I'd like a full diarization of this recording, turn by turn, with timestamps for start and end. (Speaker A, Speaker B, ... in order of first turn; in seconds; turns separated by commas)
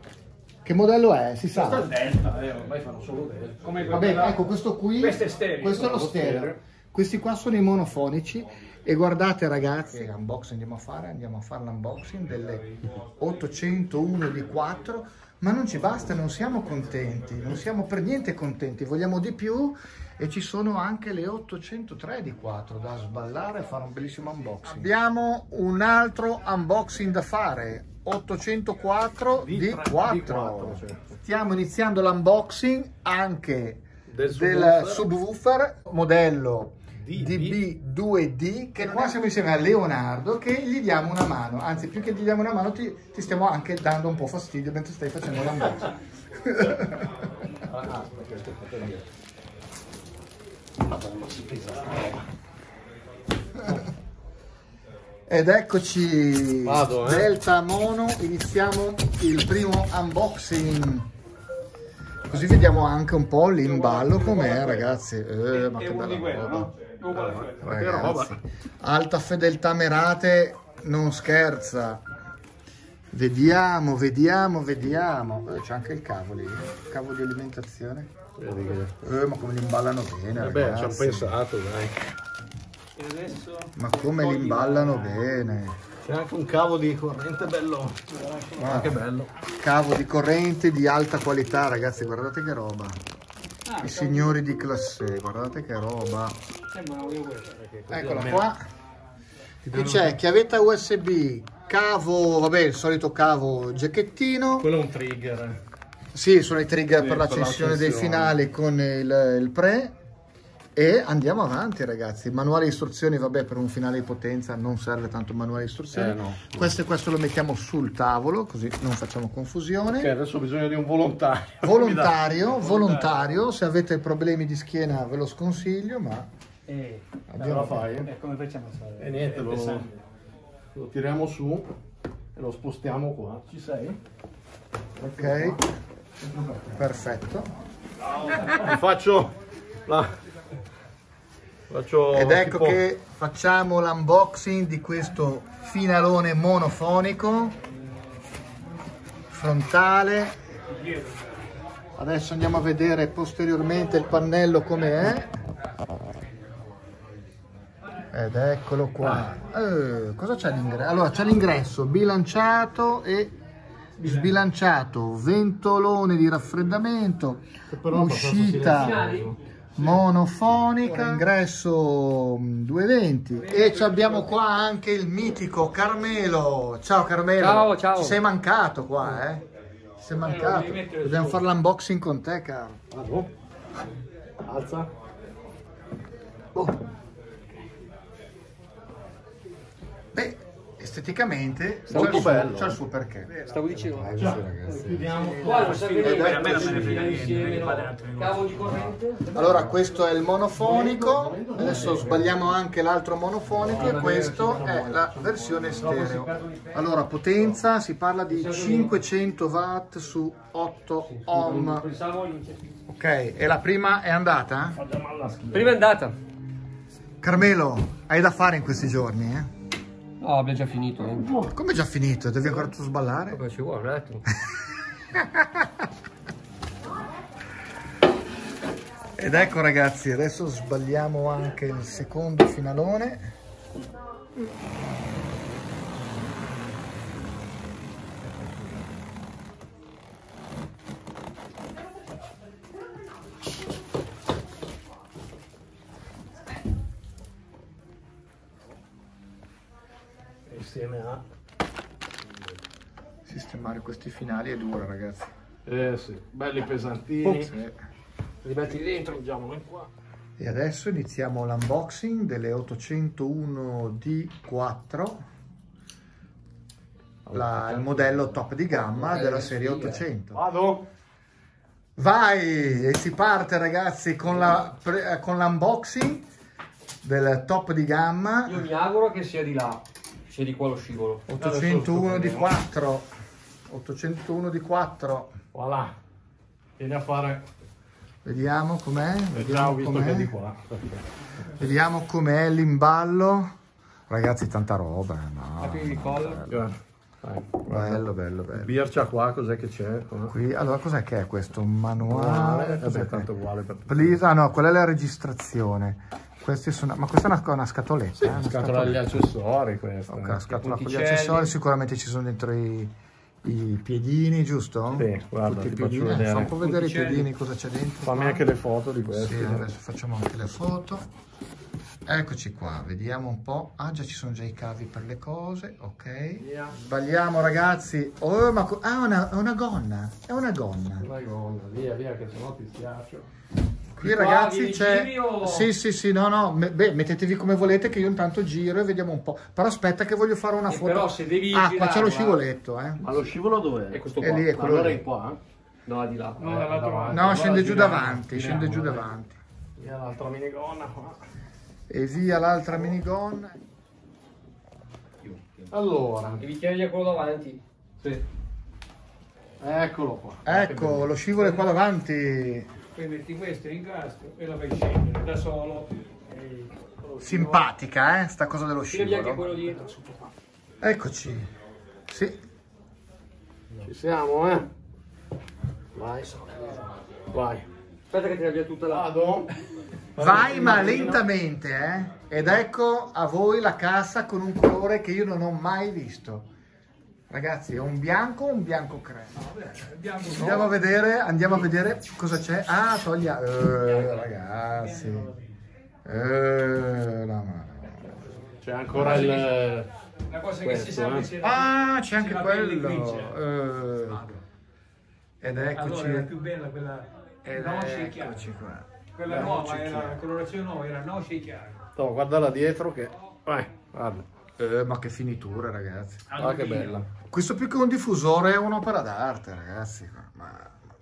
Speaker A: 0.6-1.9, Speaker B: 1.5-4.4, Speaker C: 3.6-4.4, Speaker A: 3.9-47.2, Speaker C: 5.0-6.1, Speaker B: 5.7-6.6, Speaker B: 29.4-31.0, Speaker B: 34.1-35.1, Speaker B: 37.0-37.6, Speaker B: 47.6-49.0, Speaker B: 50.9-52.2, Speaker A: 55.3-61.1, Speaker B: 56.6-57.3, Speaker A: 62.3-66.7, Speaker C: 63.6-64.9, Speaker C: 65.5-67.7, Speaker B: 67.1-68.4, Speaker A: 67.6-72.0, Speaker A: 73.1-78.1, Speaker B: 78.4-78.9, Speaker A: 79.0-81.3, Speaker B: 80.3-82.0, Speaker C: 83.0-85.4, Speaker A: 83.8-85.8, Speaker B: 86.0-89.3, Speaker C: 88.1-88.7, Speaker A: 88.6-89.0, Speaker A: 89.6-93.0, Speaker C: 93.7-94.4, Speaker A: 93.8-96.4, Speaker C: 96.7-97.8, Speaker B: 97.9-98.5, Speaker A: 97.9-98.7, Speaker B: 99.6-100.2, Speaker A: 99.7-104.7, Speaker B: 104.6-105.6, Speaker A: 106.1-110.0, Speaker B: 107.0-108.4, Speaker A: 110.7-120.1, Speaker B: 115.9-116.7, Speaker B: 120.0-122.2, Speaker A: 121.6-126.3, Speaker C: 122.4-123.3, Speaker C: 126.7-129.9, Speaker A: 127.3-127.8, Speaker B: 127.4-128.1, Speaker B: 129.0-129.9, Speaker B: 130.7-131.7, Speaker B: 132.3-134.0, Speaker B: 135.0-135.6, Speaker A: 135.1-135.6, Speaker B: 136.2-136.8, Speaker A: 136.8-137.5, Speaker B: 138.4-140.1, Speaker B: 141.7-142.8, Speaker A: 142.1-147.6, Speaker A: 149.3-150.3, Speaker C: 150.7-151.3, Speaker A: 152.0-155.3, Speaker A: 158.1-163.3, Speaker B: 159.0-159.3, Speaker C: 164.0-164.4, Speaker A: 164.0-169.1, Speaker B: 167.7-170.0, Speaker D: 168.7-169.3, Speaker A: 169.8-179.4, Speaker B: 170.8-171.2, Speaker C: 173.4-174.3, Speaker D: 177.4-178.2, Speaker A: 180.0-182.8, Speaker C: 180.2-181.5, Speaker B: 182.9-183.3, Speaker B: 184.4-184.9, Speaker A: 190.1-195.1, Speaker B: 191.9-192.8, Speaker D: 191.9-192.5, Speaker D: 193.3-194.1, Speaker B: 194.2-197.0, Speaker C: 195.1-198.9, Speaker D: 195.4-199.6, Speaker A: 196.0-197.0, Speaker A: 199.3-211.8, Speaker B: 200.5-202.4, Speaker D: 201.6-201.9, Speaker B: 203.5-204.8, Speaker D: 203.6-206.8, Speaker D: 208.3-209.0, Speaker D: 211.1-212.6, Speaker A: 212.9-214.8, Speaker B: 214.8-215.8, Speaker D: 215.5-216.2, Speaker A: 217.2-219.5, Speaker D: 220.2-221.3, Speaker A: 221.5-223.4, Speaker D: 223.3-224.2, Speaker A: 225.1-225.7, Speaker A: 229.2-233.3, Speaker B: 250.5-251.2, Speaker A: 253.3-255.3, Speaker B: 255.7-257.5, Speaker A: 257.2-257.8, Speaker D: 258.4-259.3, Speaker B: 258.5-259.9, Speaker A: 260.4-265.2, Speaker B: 267.2-268.4, Speaker A: 267.3-270.4, Speaker D: 268.9-270.0, Speaker B: 270.3-270.9, Speaker A: 272.0-276.2, Speaker A: 277.0-278.6, Speaker D: 278.4-281.2, Speaker A: 281.3-283.1, Speaker B: 281.4-282.5, Speaker A: 283.7-285.4, Speaker B: 285.5-285.9, Speaker B: 286.8-287.4, Speaker A: 288.2-290.3, Speaker B: 289.3-291.1, Speaker A: 291.5-293.5, Speaker A: 294.1-296.7, Speaker D: 295.6-296.4, Speaker B: 296.5-298.0, Speaker A: 297.7-298.8, Speaker B: 298.6-300.3, Speaker A: 300.3-303.3, Speaker B: 302.1-304.2, Speaker A: 303.9-309.0, Speaker B: 308.1-310.4, Speaker A: 310.1-318.4, Speaker D: 310.5-311.5, Speaker B: 314.9-316.5, Speaker D: 316.6-317.3, Speaker B: 318.0-319.7, Speaker A: 319.1-321.1, Speaker A: 322.0-331.1, Speaker B: 326.4-326.7, Speaker B: 331.0-333.3, Speaker A: 334.0-343.1, Speaker D: 334.0-335.7, Speaker D: 340.7-342.4, Speaker B: 343.0-345.4, Speaker D: 343.9-344.5, Speaker A: 344.2-345.1, Speaker D: 345.9-346.5, Speaker C: 346.4-348.7, Speaker B: 346.4-349.1, Speaker A: 347.1-349.4, Speaker B: 349.8-351.2, Speaker A: 351.9-353.6, Speaker B: 355.6-356.4, Speaker D: 356.4-358.2, Speaker B: 359.6-361.1, Speaker A: 360.4-362.7, Speaker C: 362.9-366.7, Speaker B: 367.1-367.6, Speaker A: 367.2-369.5, Speaker D: 368.9-370.2, Speaker A: 370.8-371.5, Speaker A: 372.1-372.4, Speaker B: 373.8-374.7, Speaker B: 375.9-376.4, Speaker B: 377.3-377.7, Speaker D: 378.1-379.1, Speaker B: 378.9-379.5, Speaker B: 380.1-381.2, Speaker A: 380.2-386.5, Speaker A: 387.3-389.3, Speaker C: 389.3-390.8, Speaker A: 390.3-395.3, Speaker D: 393.8-394.2, Speaker C: 394.7-395.5, Speaker A: 396.1-398.2, Speaker B: 398.6-399.9, Speaker A: 398.9-399.4, Speaker C: 398.9-399.5, Speaker C: 400.3-403.4, Speaker D: 400.6-401.2, Speaker B: 400.8-401.3, Speaker A: 401.4-404.4, Speaker A: 405.4-406.3, Speaker C: 405.5-408.5, Speaker A: 407.4-408.9, Speaker C: 409.1-411.9, Speaker B: 409.3-410.2, Speaker B: 411.9-414.3, Speaker A: 414.6-416.2, Speaker C: 416.3-417.0, Speaker B: 416.3-417.1, Speaker A: 417.3-420.7